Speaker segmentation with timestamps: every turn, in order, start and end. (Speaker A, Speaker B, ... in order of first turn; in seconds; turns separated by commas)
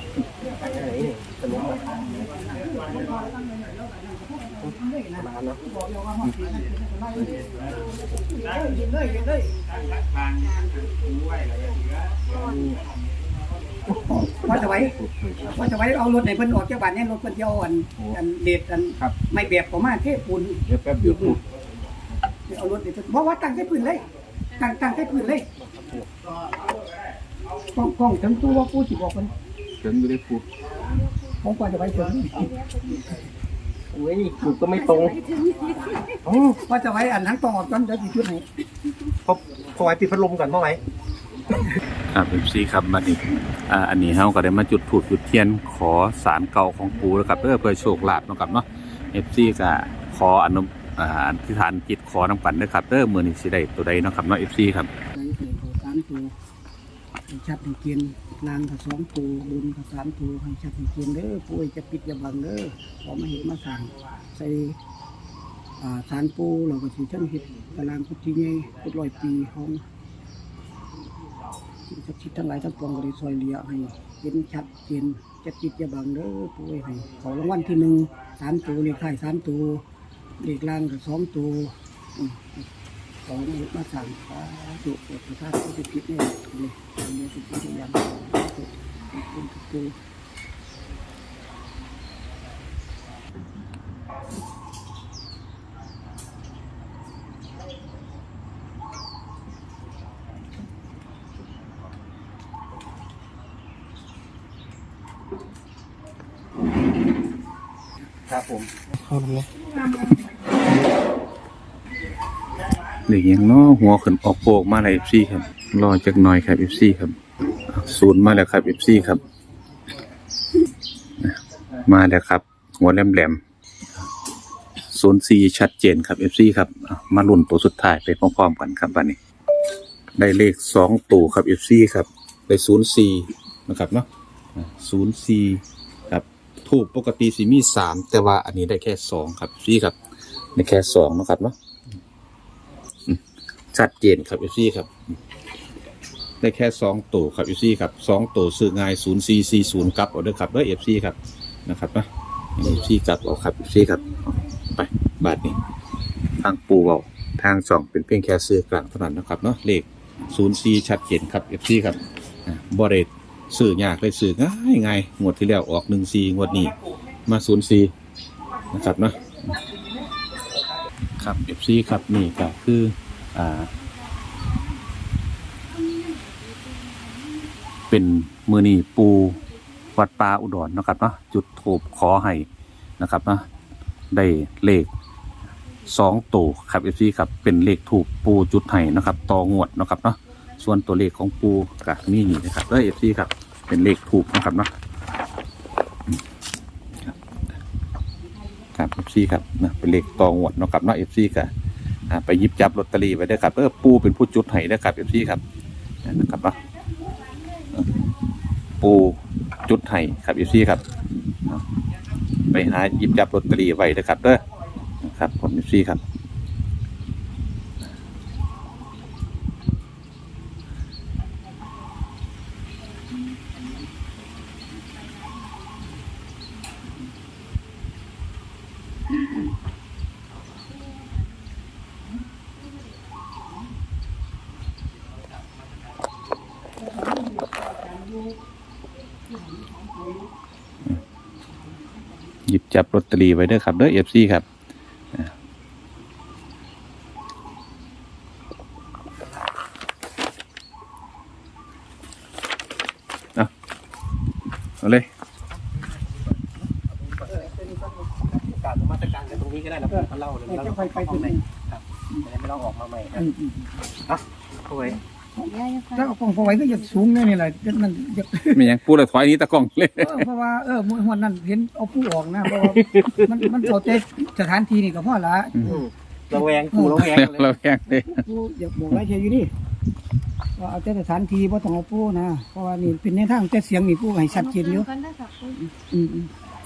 Speaker A: 0.3-0.8, Speaker B: 0.4-1.9, Speaker C: 0.4-3.3, Speaker A: 1.5-9.6, Speaker B: 4.6-5.6, Speaker C: 7.4-7.9, Speaker C: 8.4-8.9, Speaker D: 9.1-11.5, Speaker C: 9.5-14.7, Speaker B: 12.3-12.8, Speaker D: 12.3-12.8, Speaker B: 13.9-14.9, Speaker A: 14.1-15.0, Speaker E: 14.8-15.6, Speaker A: 15.5-21.4, Speaker E: 20.7-21.4, Speaker A: 22.4-25.5, Speaker D: 24.6-25.0, Speaker B: 25.5-26.1, Speaker C: 26.2-27.0, Speaker A: 27.7-29.3, Speaker E: 29.8-30.4, Speaker A: 31.4-32.5, Speaker D: 32.6-33.1, Speaker B: 33.9-35.2, Speaker D: 34.5-36.2, Speaker B: 36.2-36.6, Speaker A: 36.6-38.5, Speaker B: 39.2-40.8, Speaker E: 42.1-54.9, Speaker A: 55.1-56.3, Speaker A: 57.3-64.8, Speaker A: 65.8-69.8, Speaker A: 71.9-79.8, Speaker A: 80.4-82.7, Speaker A: 83.2-90.0, Speaker B: 108.3-109.5, Speaker E: 113.1-119.2, Speaker E: 121.2-123.4, Speaker E: 124.9-129.2, Speaker E: 130.2-139.9, Speaker E: 140.5-141.6, Speaker E: 143.7-145.2, Speaker E: 146.4-155.6, Speaker E: 156.4-166.7, Speaker E: 167.3-167.9, Speaker E: 168.7-169.5, Speaker E: 171.2-173.7, Speaker D: 174.2-174.5, Speaker D: 175.8-177.6, Speaker E: 177.9-179.4, Speaker E: 179.9-182.5, Speaker E: 183.0-183.5, Speaker E: 184.1-184.9, Speaker E: 185.9-194.7, Speaker E: 198.7-201.5, Speaker E: 202.1-205.4, Speaker E: 206.0-206.6, Speaker E: 207.8-208.0, Speaker E: 208.8-210.9, Speaker E: 212.5-214.4, Speaker E: 215.0-216.0, Speaker A: 236.8-238.3, Speaker A: 239.3-240.3, Speaker E: 242.5-244.4, Speaker E: 254.8-255.1, Speaker B: 255.7-263.2, Speaker A: 257.3-258.0, Speaker A: 259.9-261.4, Speaker A: 263.1-263.7, Speaker B: 264.0-265.0, Speaker A: 265.4-268.8, Speaker D: 265.5-266.8, Speaker E: 268.5-270.3, Speaker A: 270.0-275.8, Speaker B: 275.6-277.6, Speaker A: 276.7-277.0, Speaker E: 276.9-278.2, Speaker A: 277.9-279.5, Speaker A: 280.6-284.9, Speaker D: 284.3-285.6, Speaker A: 285.6-286.3